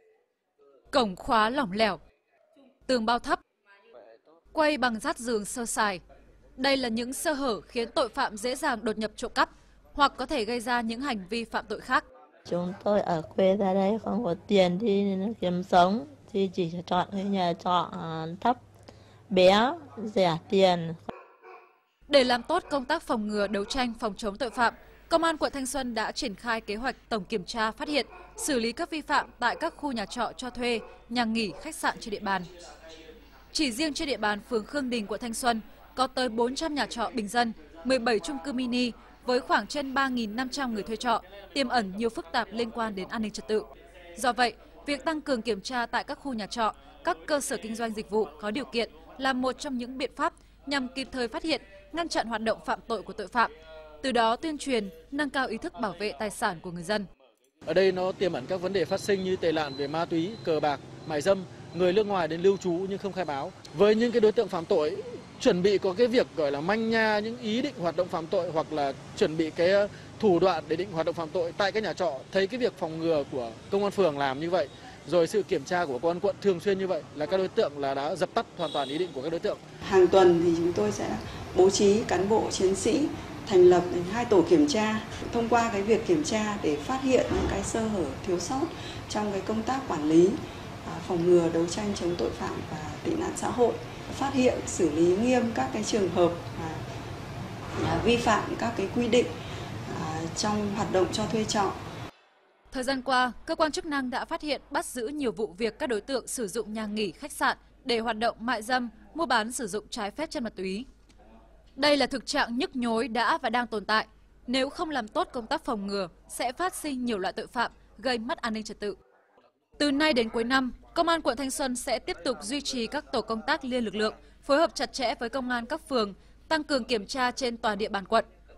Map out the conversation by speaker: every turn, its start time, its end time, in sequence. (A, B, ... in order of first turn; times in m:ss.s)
0:00.9-0:02.0 A
0:02.9-0:03.4 A
0:04.5-0:06.0 A
0:06.6-0:12.0 A
0:12.5-0:18.6 B
0:19.3-0:21.0 B
0:22.1-0:32.4 A
0:33.5-0:53.5 A
0:54.0-0:57.0 A
0:57.6-1:19.6 C
1:19.8-1:36.8 D
1:37.8-1:39.3 D
1:39.9-1:41.8 D
1:42.7-1:50.8 A
1:51.8-1:59.0 A
1:59.8-2:08.3 A